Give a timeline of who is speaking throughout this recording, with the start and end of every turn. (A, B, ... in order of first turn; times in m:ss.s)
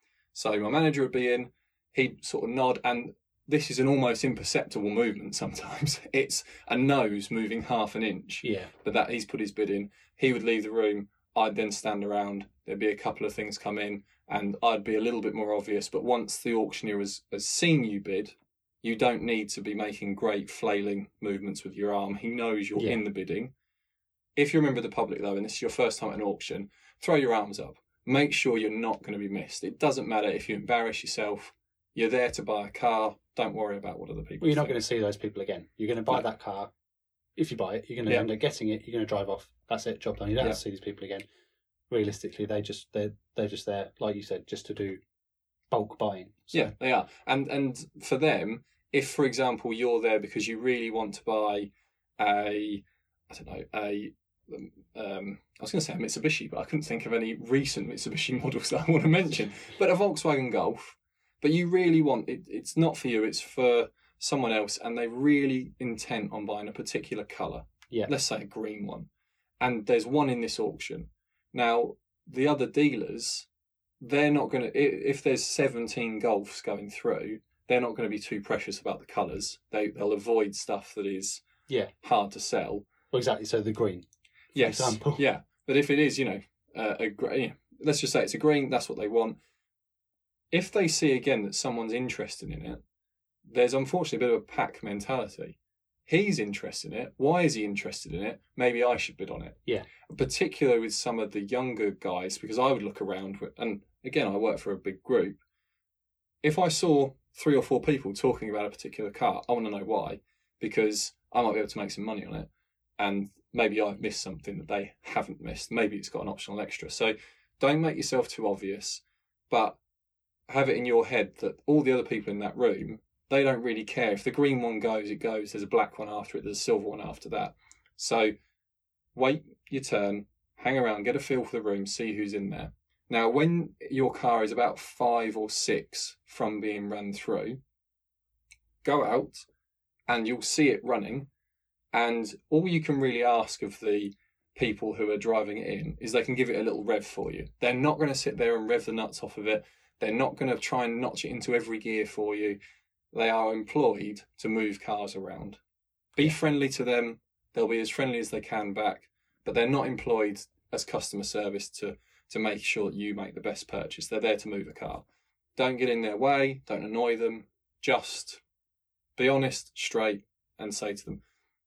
0:00.3-0:23.5 A
0:08.4-0:08.7 B
0:24.4-0:34.8 A
0:34.4-0:36.7 B
0:37.4-0:41.2 B
0:41.9-0:45.0 B
0:45.7-0:46.7 B
0:46.5-1:09.1 A
1:09.6-1:13.5 A
1:14.0-1:21.4 A
1:22.0-1:22.9 A
1:23.1-1:25.2 B
1:24.6-1:29.4 A
1:30.5-1:32.8 A
1:33.5-1:45.4 A
1:46.4-1:59.8 A
2:00.5-2:08.3 A
2:09.1-2:17.6 A
2:18.8-2:19.4 A
2:20.1-2:21.3 A
2:21.9-2:32.6 A
2:33.1-2:35.6 A
2:36.2-2:45.0 A
2:45.6-2:48.4 A
2:49.2-2:51.2 A